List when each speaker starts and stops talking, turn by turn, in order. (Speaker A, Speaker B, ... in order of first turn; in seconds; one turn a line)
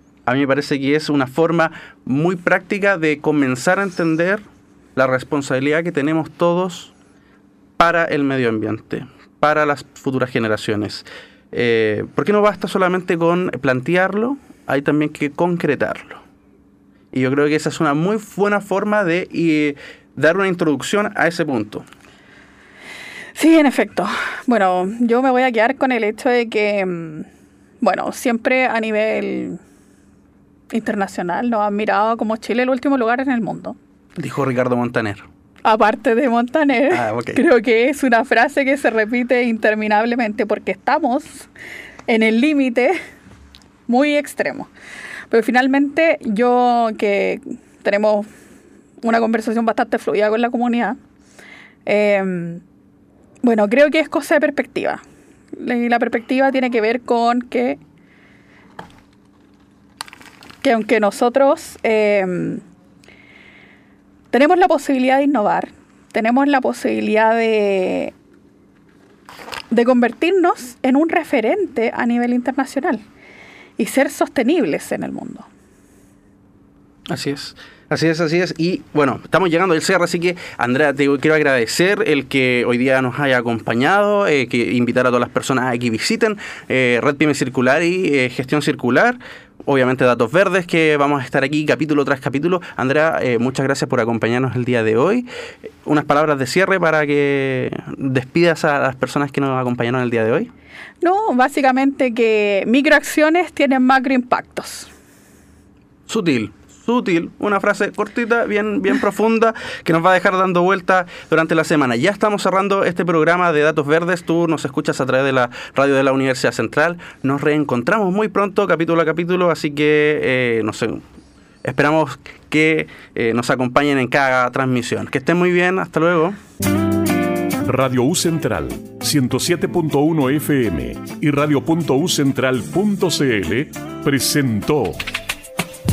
Speaker A: 0.2-4.4
Speaker A: 5.0-6.9
Speaker A: 7.8-16.2
Speaker A: 17.1-21.9
Speaker B: 23.4-27.3
Speaker B: 27.8-29.6
Speaker B: 30.7-33.8
Speaker A: 34.2-35.2
Speaker B: 35.6-41.5
Speaker A: 36.9-37.4
Speaker B: 42.1-43.0
Speaker B: 43.9-44.7
Speaker B: 45.3-48.3
Speaker B: 49.0-51.0
Speaker B: 51.9-52.6
Speaker B: 53.4-55.0
Speaker B: 55.5-57.8
Speaker B: 60.6-62.6
Speaker B: 64.3-68.1
Speaker B: 69.7-73.0
Speaker B: 73.8-75.5
Speaker A: 77.1-95.3
Speaker A: 95.8-100.5
Speaker B: 101.0-104.9
Speaker A: 106.1-121.0
Speaker A: 121.6-126.4
Speaker C: 127.6-135.0